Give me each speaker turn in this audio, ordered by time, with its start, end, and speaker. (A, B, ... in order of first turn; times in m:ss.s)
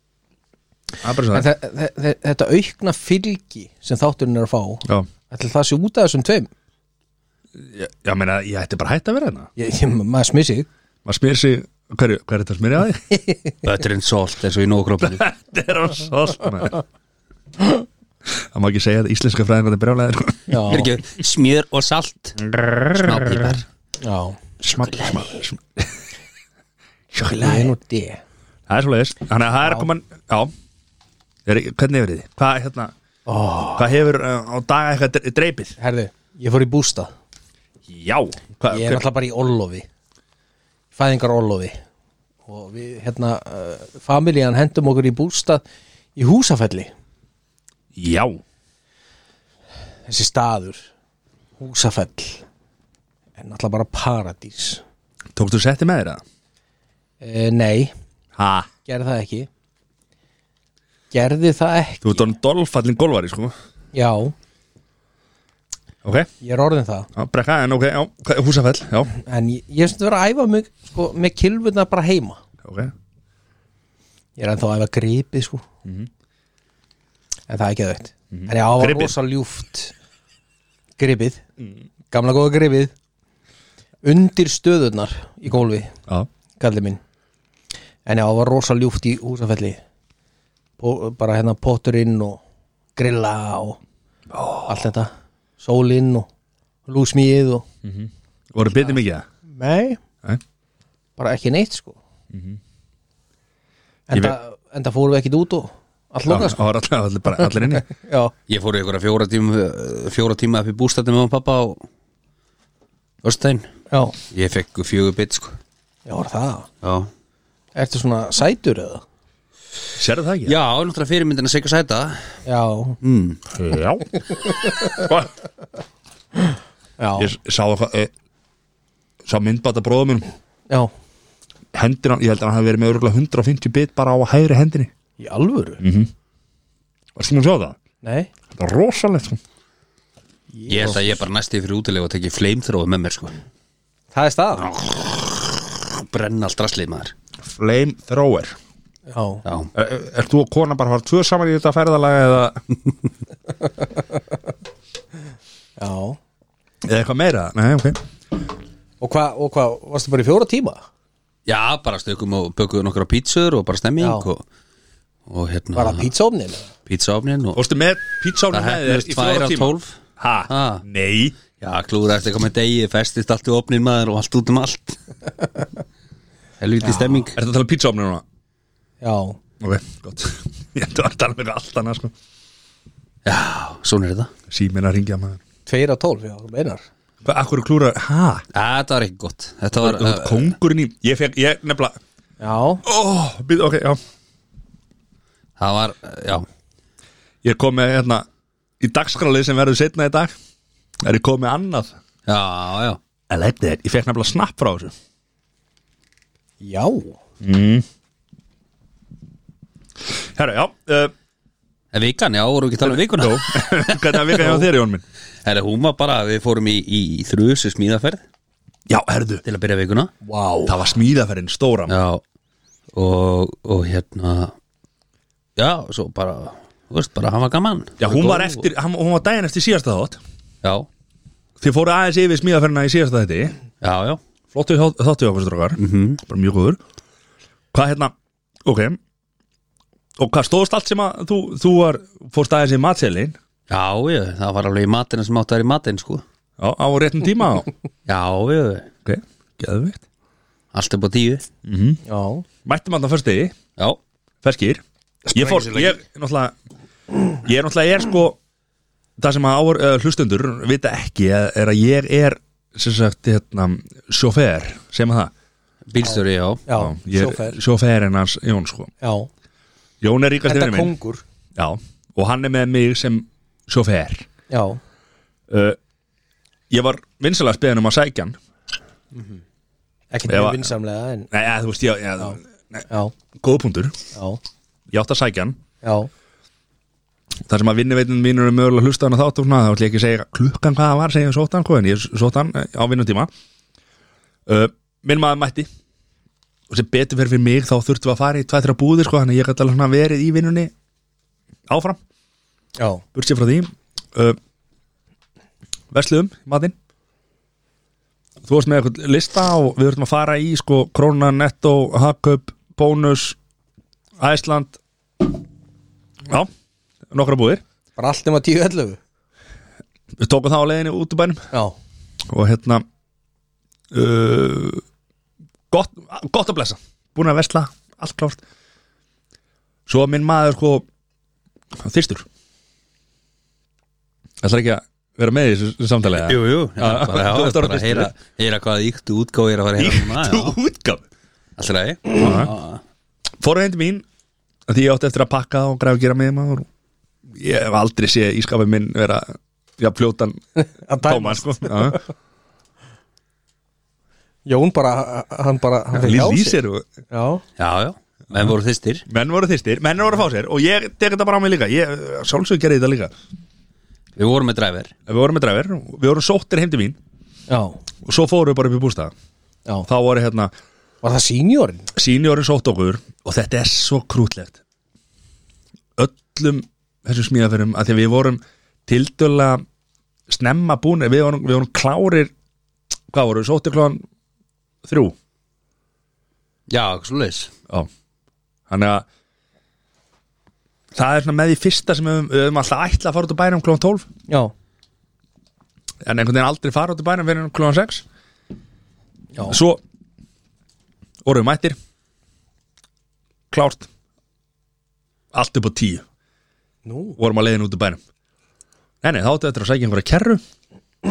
0:01.0-0:01.5 A
0:01.3-0:06.5 B
0:07.6-0:09.5 A
0:09.6-0:10.7 B
0:11.0-0:13.1 A
0:13.2-0:13.5 B
0:13.6-0:15.2 C
0:15.0-0:16.8 A
0:18.2-0:20.8 A
0:20.5-0:20.9 B
0:20.6-0:23.6 C
0:22.4-0:23.4 A
0:24.0-0:24.4 B
0:24.6-0:25.9 A
0:27.1-0:27.7 A
0:27.2-0:28.2 B
0:28.7-0:30.5 A
0:31.4-0:32.9 A
0:33.2-0:33.9 B
0:33.8-0:35.8 A
0:35.8-0:37.1 B
0:37.8-0:39.0 A
0:38.7-0:39.9 B
0:40.9-0:41.8 B
0:42.4-0:45.6 B
0:46.2-0:46.9 B
0:47.9-0:48.4 A
0:50.1-0:50.9 B
0:51.6-0:52.4 B
0:53.4-0:54.8 B
0:55.4-0:56.2 A
0:57.2-0:57.9 B
0:58.4-0:58.7 A
0:58.8-0:59.5 B
1:01.1-1:02.3 B
1:02.0-1:03.5 A
1:03.9-1:04.3 B
1:06.0-1:06.3 A
1:06.4-1:07.1 B
1:07.1-1:09.1 A
1:09.1-1:12.4 B
1:12.6-1:12.9 A
1:14.4-1:15.6 B
1:15.8-1:16.1 A
1:17.5-1:19.9 B
1:18.3-1:19.1 A
1:21.0-1:21.4 B
1:22.1-1:22.9 B
1:24.0-1:25.9 B
1:26.6-1:27.0 B
1:28.0-1:29.8 B
1:30.8-1:32.4 B
1:33.0-1:33.8 B
1:34.3-1:34.8 A
1:34.7-1:36.3 B
1:36.8-1:37.6 B
1:37.8-1:39.2 A
1:39.4-1:40.0 B
1:41.2-1:42.0 B
1:42.3-1:42.6 A
1:44.1-1:46.6 B
1:46.3-1:47.9 A
1:47.6-1:48.3 B
1:48.5-1:51.8 C
1:53.2-1:53.7 C
1:53.9-1:54.2 B
1:54.3-1:55.6 C
1:56.1-1:56.7 B
1:56.8-1:57.1 C
1:57.7-1:59.0 B
2:00.0-2:00.6 A
2:00.4-2:02.4 C
2:02.4-2:03.0 B
2:03.0-2:03.4 C
2:03.5-2:04.1 A
2:04.7-2:05.1 B
2:07.0-2:07.3 B
2:07.2-2:08.1 A
2:09.2-2:10.3 A
2:11.7-2:14.9 A
2:15.2-2:15.8 B
2:15.8-2:16.1 A
2:17.2-2:17.8 A
2:18.0-2:18.3 B
2:18.5-2:19.4 A
2:20.5-2:21.2 B
2:20.7-2:23.4 C
2:24.1-2:24.7 B
2:24.6-2:27.1 C
2:27.4-2:28.6 A
2:29.1-2:29.4 B
2:29.4-2:29.7 C
2:29.7-2:32.6 A
2:35.8-2:36.2 B
2:36.8-2:38.0 A
2:39.0-2:40.8 B
2:41.5-2:44.4 C
2:44.0-2:44.3 B
2:45.3-2:46.1 C
2:45.7-2:46.7 B
2:46.9-2:47.6 C
2:47.5-2:51.4 A
2:48.5-2:50.0 C
2:50.5-2:50.8 C
2:51.6-2:55.0 C
2:56.6-2:57.4 C
2:56.8-2:57.2 B
2:57.3-2:58.2 A
2:59.0-2:59.4 B
2:59.6-3:02.1 A
3:03.2-3:04.3 C
3:04.5-3:05.4 A
3:05.6-3:06.8 B
3:07.2-3:08.4 A
3:08.5-3:10.5 C
3:09.8-3:12.0 A
3:12.4-3:12.8 B
3:12.8-3:14.0 A
3:15.6-3:16.4 C
3:17.4-3:18.2 A
3:18.8-3:20.3 A
3:21.0-3:21.9 A
3:22.2-3:23.0 C
3:23.3-3:24.9 A
3:26.6-3:27.2 B
3:27.4-3:27.8 A
3:30.1-3:31.1 A
3:31.9-3:34.6 C
3:32.8-3:35.0 A
3:35.4-3:38.2 C
3:38.9-3:39.4 A
3:39.4-3:40.1 C
3:40.2-3:40.8 B
3:40.6-3:41.9 A
3:41.9-3:42.2 C
3:42.9-3:44.5 C
3:45.6-3:48.6 C
3:48.0-3:50.2 A
3:51.6-3:53.6 A
3:53.8-3:54.2 C
3:54.5-3:56.8 A
3:55.8-3:56.2 C
3:57.7-3:58.1 A
3:58.6-3:59.0 A
4:00.2-4:03.4 A
4:03.7-4:06.2 C
4:06.6-4:07.7 A
4:08.0-4:08.9 C
4:09.0-4:10.0 A
4:10.7-4:11.4 C
4:11.6-4:12.0 A
4:12.0-4:12.4 B
4:12.6-4:13.6 A
4:14.4-4:14.8 A
4:15.3-4:15.9 C
4:15.3-4:16.5 A
4:17.4-4:18.4 A
4:19.2-4:25.3 A
4:25.9-4:26.6 C
4:26.0-4:27.6 B
4:26.7-4:28.9 A
4:29.0-4:29.3 B
4:30.0-4:30.9 A
4:30.4-4:31.2 B
4:31.6-4:34.2 A
4:34.5-4:34.8 B
4:35.5-4:35.8 A
4:36.7-4:38.4 A
4:39.1-4:39.4 B
4:40.1-4:41.3 B
4:40.3-4:40.7 A
4:41.3-4:44.0 A
4:42.9-4:43.1 B
4:44.1-4:44.4 B
4:44.9-4:45.6 A
4:45.8-4:46.1 B
4:47.4-4:53.3 A
4:54.4-4:55.7 A
4:56.7-5:00.7 A
5:01.7-5:02.0 A
5:02.8-5:03.0 B
5:03.1-5:04.4 A
5:05.9-5:06.7 A
5:08.4-5:13.4 A
5:14.2-5:15.3 A
5:17.1-5:17.6 A
5:18.0-5:19.0 B
5:20.2-5:21.4 A
5:22.3-5:22.8 A
5:23.9-5:24.8 A
5:25.7-5:28.4 A
5:29.9-5:30.8 A
5:31.7-5:32.3 A
5:34.4-5:38.1 A
5:36.1-5:40.5 C
5:39.8-5:41.0 A
5:41.6-5:42.8 C
5:42.2-5:42.5 A
5:43.4-5:44.0 A
5:44.7-5:46.6 A
5:47.3-5:50.4 A
5:50.6-5:52.0 B
5:51.0-5:52.0 A
5:54.4-5:56.6 B
5:55.9-5:56.9 A
5:57.1-5:57.4 B
5:57.6-5:59.0 C
5:59.1-6:03.1 A
6:04.2-6:04.9 C
6:05.1-6:07.0 A
6:07.5-6:07.8 B
6:08.0-6:09.1 A
6:09.9-6:10.5 A
6:11.0-6:11.9 B
6:12.0-6:14.6 A
6:16.0-6:19.6 A
6:20.3-6:22.3 A
6:23.1-6:24.0 A
6:24.8-6:25.2 A
6:26.7-6:27.5 C
6:28.7-6:29.0 A
6:30.9-6:34.1 A
6:36.0-6:38.0 A
6:39.4-6:39.8 A
6:41.2-6:41.8 A
6:43.5-6:43.9 A
6:45.3-6:46.0 A
6:46.8-6:47.2 B
6:47.2-6:48.0 A
6:49.0-6:50.4 A